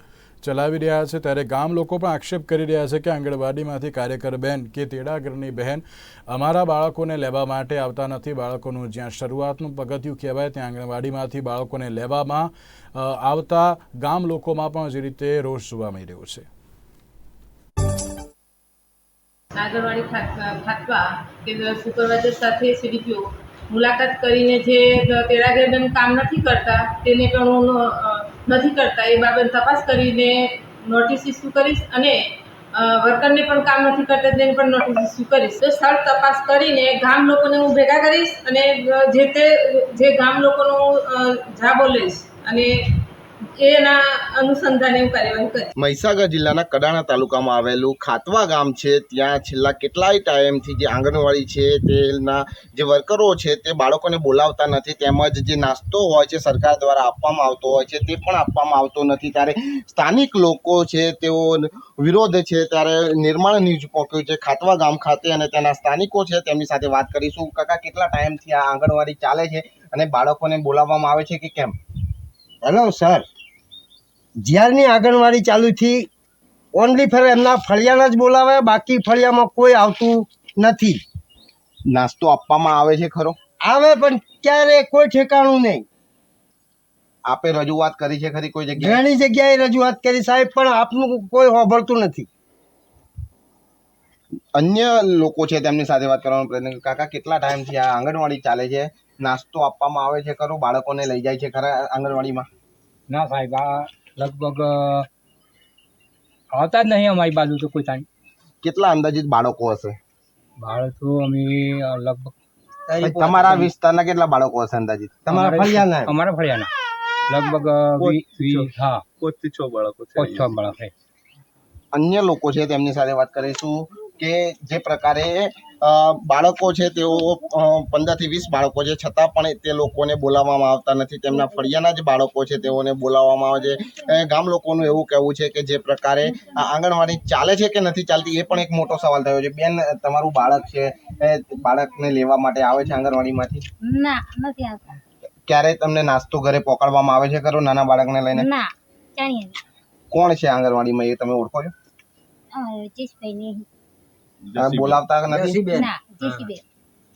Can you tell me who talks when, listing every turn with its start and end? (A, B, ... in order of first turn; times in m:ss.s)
0:00.4-0:16.4 A
0:19.6-0:32.2 B
0:32.7-0:42.7 B
0:43.6-0:45.7 B
0:45.8-1:11.8 C
1:12.6-1:13.2 D
1:14.4-1:16.1 D
1:16.7-1:21.0 D
1:21.9-1:23.4 C
1:23.6-1:25.9 D
1:27.2-1:29.0 C
1:28.8-1:32.3 D
1:34.5-1:42.5 C
1:43.1-1:45.1 E
1:46.5-1:48.1 E
1:48.6-1:50.0 C
1:50.6-1:52.3 E
1:53.0-1:55.4 C
1:53.1-1:53.6 F
1:55.3-1:56.7 E
1:55.3-1:56.1 D
1:57.3-1:59.0 E
1:58.0-2:00.7 F
2:00.1-2:00.9 E
2:01.9-2:23.6 C
2:23.8-2:24.9 G
2:25.5-2:28.5 C
2:28.3-2:29.6 G
2:30.1-2:31.7 C
2:32.5-2:33.6 G
2:34.5-2:35.8 C
2:34.5-2:36.5 F
2:35.6-2:36.6 G